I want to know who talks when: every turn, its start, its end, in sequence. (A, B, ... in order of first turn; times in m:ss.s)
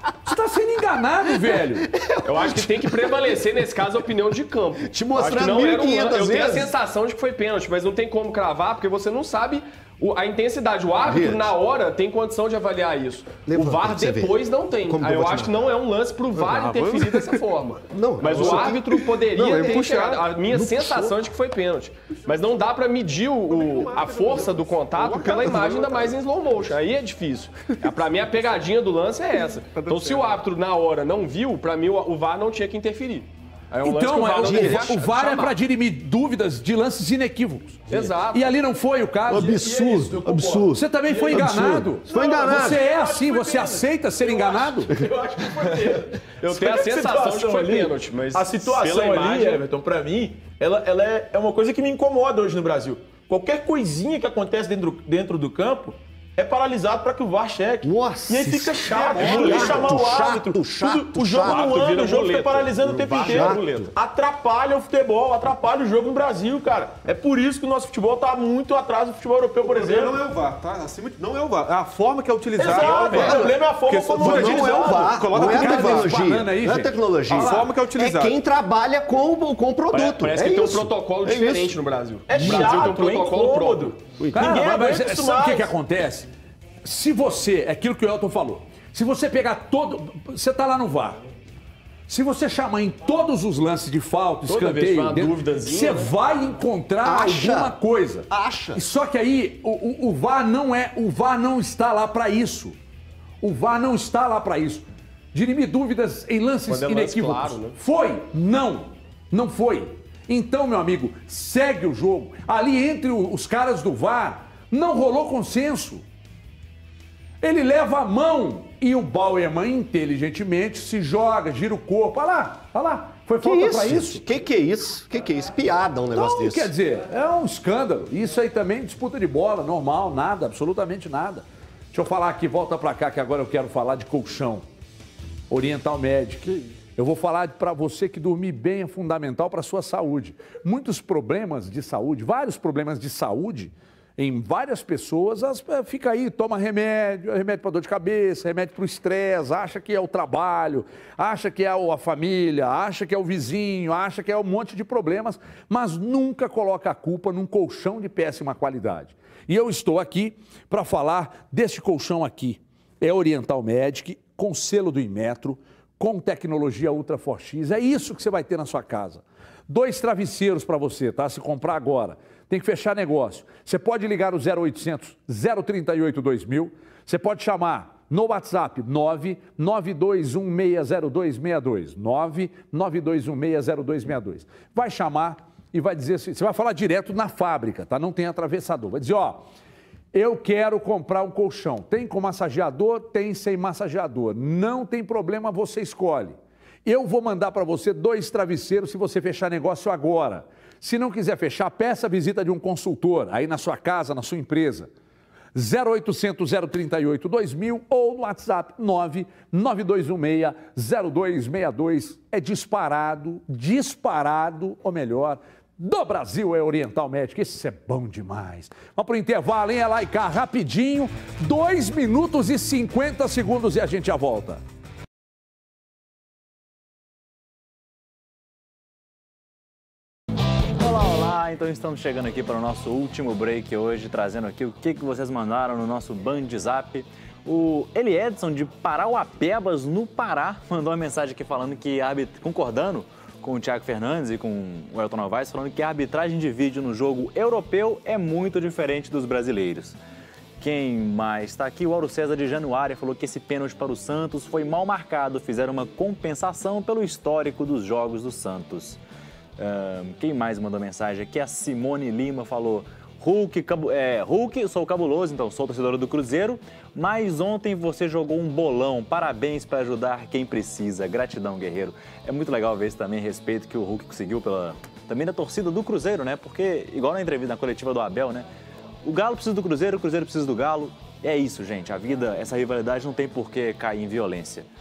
0:00.2-0:01.9 A
0:01.9-0:03.0 B
0:02.2-0:35.6 C
0:04.8-0:06.7 B
0:11.0-0:11.5 B
0:13.5-0:14.4 B
0:14.9-0:15.6 B
0:16.4-0:17.4 D
0:17.9-0:19.8 B
0:18.2-0:20.5 D
0:20.5-0:21.1 B
0:23.5-0:26.2 D
0:29.4-0:30.4 D
0:33.8-0:39.7 A
0:34.4-0:34.9 B
0:37.9-0:38.5 C
0:39.3-0:42.8 B
0:39.3-1:10.2 E
0:40.7-0:45.0 A
0:46.4-0:49.6 C
0:57.8-1:01.9 B
0:58.9-1:00.0 D
1:01.3-1:03.9 C
1:02.9-1:03.9 B
1:09.6-1:16.2 D
1:12.6-1:15.1 E
1:12.6-1:13.6 B
1:14.2-1:21.8 B
1:15.3-1:17.7 A
1:17.3-1:18.4 D
1:19.9-1:23.9 C
1:22.3-1:25.7 E
1:22.4-1:22.6 A
1:24.2-1:24.7 B
1:24.3-1:26.3 A
1:26.8-1:31.2 A
1:32.1-1:42.8 A
1:34.5-1:36.1 C
1:37.0-1:37.8 B
1:38.3-1:38.8 B
1:43.4-1:56.0 A
1:46.7-1:47.8 C
1:57.4-2:04.2 A
2:03.4-2:06.7 B
2:06.1-2:14.6 A
2:15.5-3:09.4 A
3:10.1-3:24.9 A
3:25.5-3:44.6 A
3:50.8-4:10.0 F
4:10.6-4:19.0 F
4:19.6-4:38.5 F
4:39.0-4:44.7 F